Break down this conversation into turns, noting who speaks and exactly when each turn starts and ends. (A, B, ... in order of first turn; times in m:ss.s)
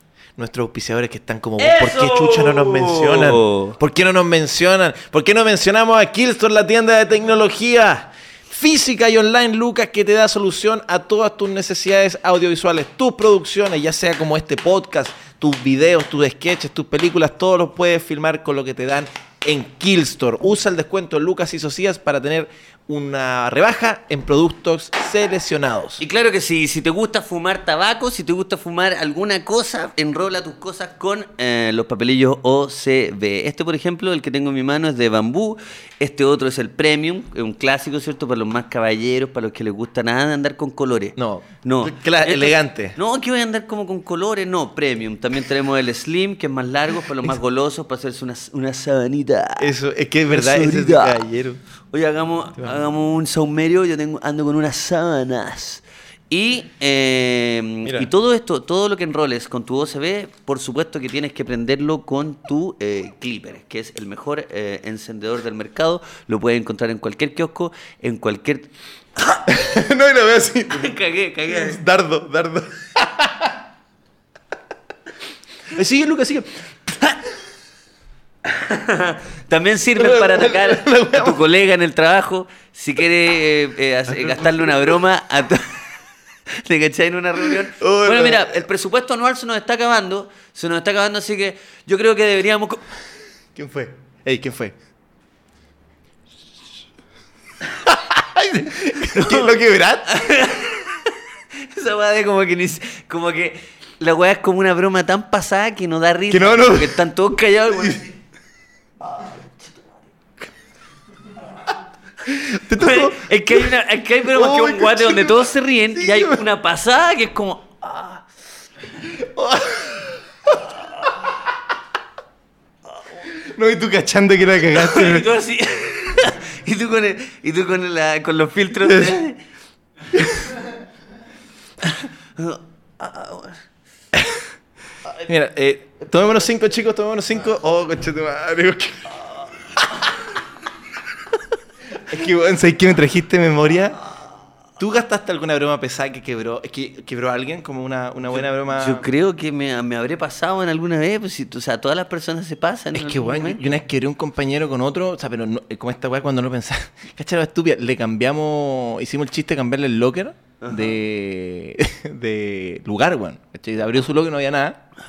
0:00.4-0:26.0 A
0:01.6-0:03.8 B
0:26.0-0:49.7 B
0:41.2-0:43.0 A
0:49.6-0:51.6 A
0:50.3-0:51.3 B
0:51.9-1:09.4 B
0:57.8-0:58.1 A
1:09.5-1:13.5 A
1:10.7-1:11.8 B
1:15.7-1:17.2 A
1:18.4-1:25.8 B
1:20.0-1:21.4 A
1:24.1-1:25.0 A
1:26.5-1:32.8 B
1:27.6-1:28.7 A
1:33.6-1:34.8 A
1:37.7-1:40.5 A
1:39.1-1:48.1 B
1:46.3-1:47.0 A
1:47.7-1:48.0 A
1:52.3-1:53.7 A
1:52.7-1:58.2 B
1:54.3-1:56.4 A
1:59.0-2:00.6 A
2:03.3-2:05.3 A
2:04.7-2:09.4 B
2:08.8-2:09.2 A
2:11.8-2:13.6 B
2:14.2-2:14.4 A
2:15.2-2:19.2 A
2:19.8-2:20.0 A
2:21.9-2:24.0 A
2:24.8-2:29.1 A
2:28.3-2:33.7 B
2:32.9-2:44.8 A
2:40.6-2:41.0 B